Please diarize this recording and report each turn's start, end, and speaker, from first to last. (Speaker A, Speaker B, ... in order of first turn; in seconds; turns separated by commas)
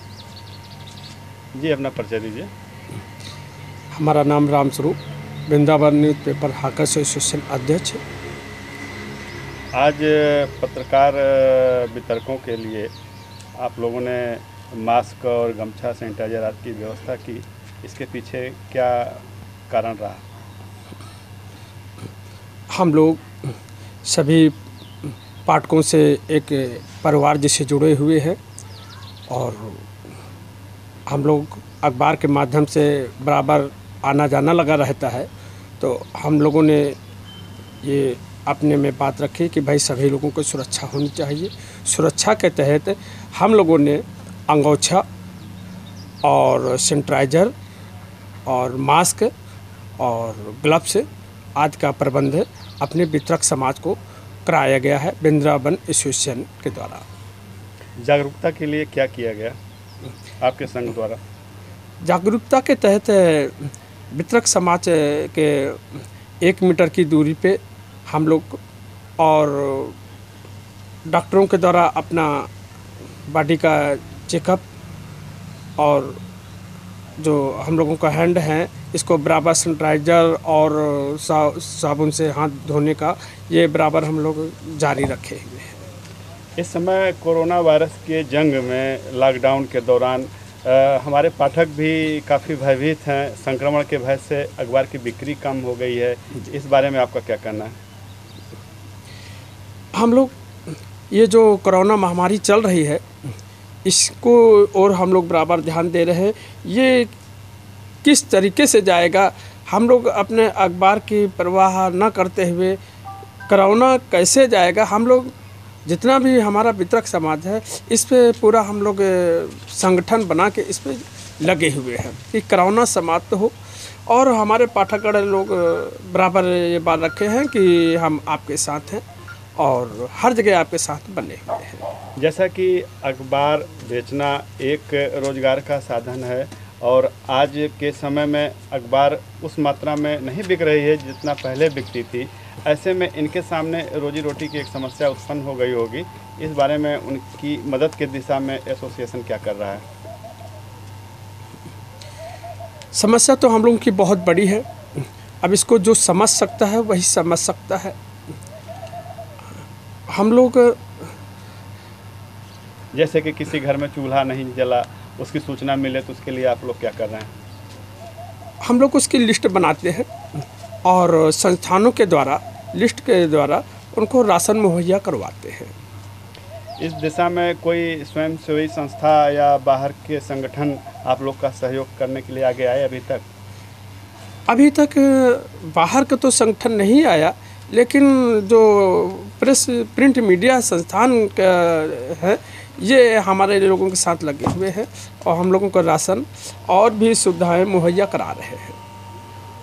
Speaker A: 1.5-2.5, Speaker B: 4.0-8.0, Speaker A: 9.7-12.9, Speaker A: 13.6-20.2, Speaker B: 22.7-23.5, Speaker B: 24.0-28.4, Speaker B: 29.3-29.9, Speaker B: 31.1-35.3, Speaker B: 35.8-37.0, Speaker B: 37.8-45.0, Speaker B: 46.2-47.5, Speaker B: 48.5-49.3, Speaker B: 50.0-57.0, Speaker A: 58.0-59.6, Speaker A: 60.4-61.2, Speaker B: 62.0-68.6, Speaker B: 69.2-70.0, Speaker B: 71.1-72.5, Speaker B: 73.3-74.6, Speaker B: 75.8-76.2, Speaker B: 77.2-85.8, Speaker A: 86.6-97.8, Speaker B: 99.9-100.3, Speaker B: 101.1-103.0, Speaker B: 103.8-107.1, Speaker B: 108.0-112.8, Speaker B: 113.5-115.3, Speaker B: 115.8-129.0, Speaker B: 129.6-131.8, Speaker A: 132.2-149.8, Speaker B: 152.9-158.0, Speaker B: 160.1-161.1, Speaker A: 162.9-167.3, Speaker B: 168.6-175.7, Speaker A: 176.8-183.2, Speaker B: 184.5-198.8